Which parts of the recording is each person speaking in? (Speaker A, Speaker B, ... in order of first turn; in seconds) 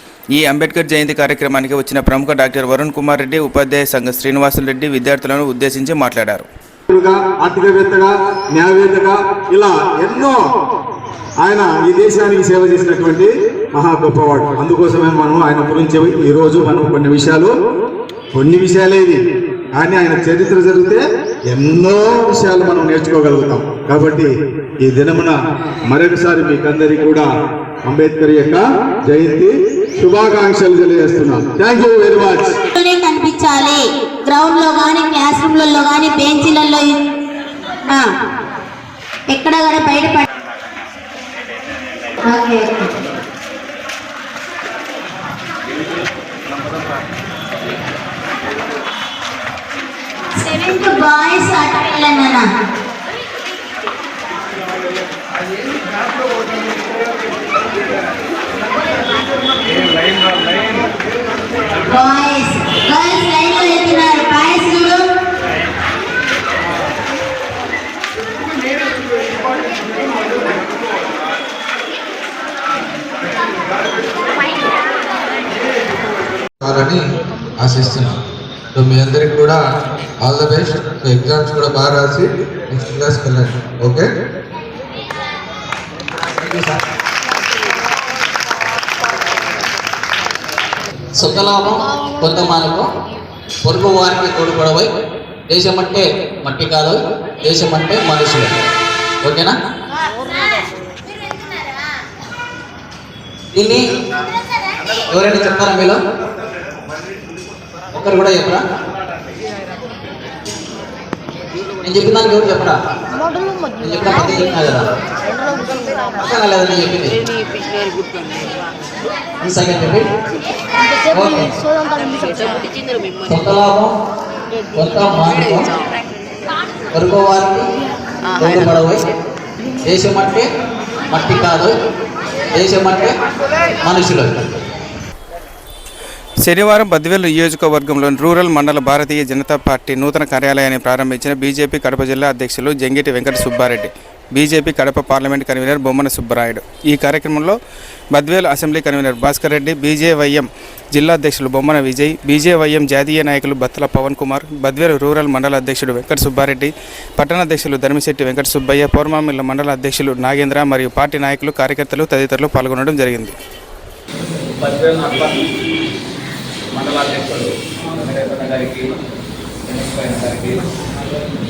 Speaker A: 0.3-6.5, 136.4-147.6, 148.1-163.3
Speaker B: 6.9-10.4, 11.4-17.5, 18.3-19.2, 19.8-24.3, 24.8-25.4, 25.9-27.3, 27.8-32.6
Speaker C: 32.7-37.0, 39.3-40.2, 42.2-42.9, 50.4-52.5, 61.7-65.1
Speaker D: 76.6-77.0, 77.6-78.2, 78.7-79.6, 80.2-84.1
Speaker E: 86.3-86.8, 91.2-92.8, 93.6-94.9, 95.5-98.5, 99.2-99.5, 103.5-103.8, 105.1-106.0, 107.9-108.6, 111.8-112.8, 113.8-114.8, 116.2-117.1, 119.4-120.0, 121.1-121.5, 123.3-123.9, 124.8-125.6, 126.9-127.6, 128.4-129.0, 129.8-130.4, 131.1-131.7, 132.5-133.1, 133.8-134.3
Speaker F: 164.6-165.4, 166.7-169.0, 169.7-170.6